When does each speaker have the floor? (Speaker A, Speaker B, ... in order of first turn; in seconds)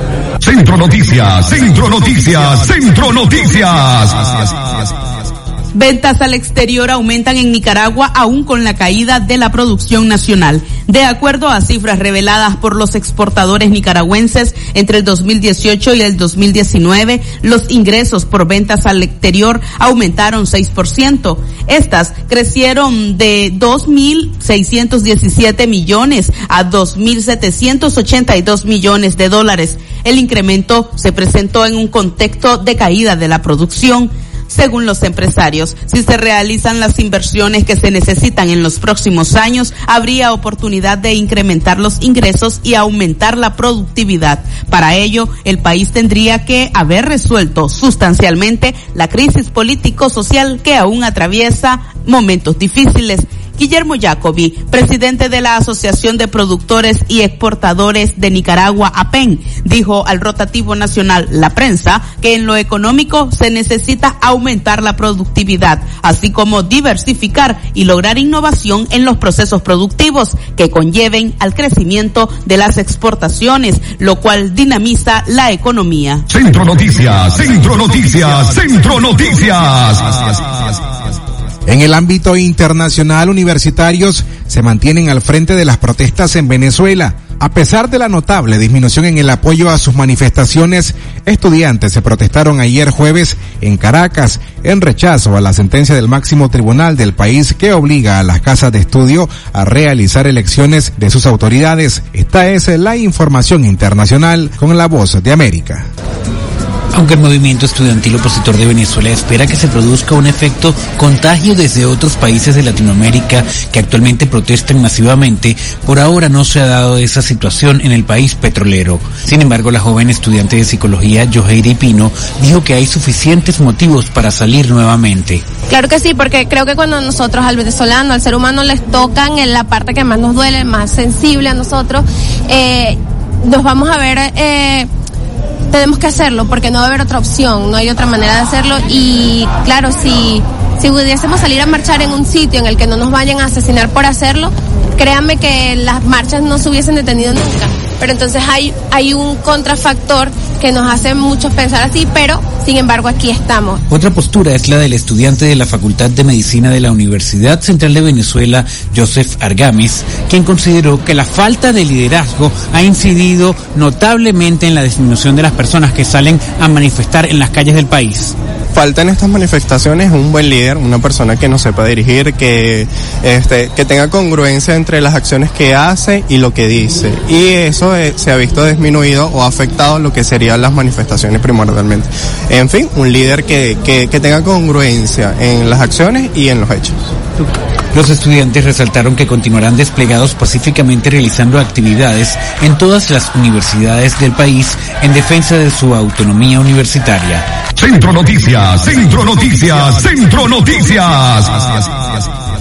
Speaker A: 0.4-4.6, 76.3-80.7, 197.8-202.2
Speaker B: 5.7-76.2
Speaker C: 81.7-105.9
Speaker D: 106.9-125.4, 153.9-168.4, 187.9-197.5
Speaker E: 125.7-134.9, 135.7-153.8
Speaker F: 168.7-187.0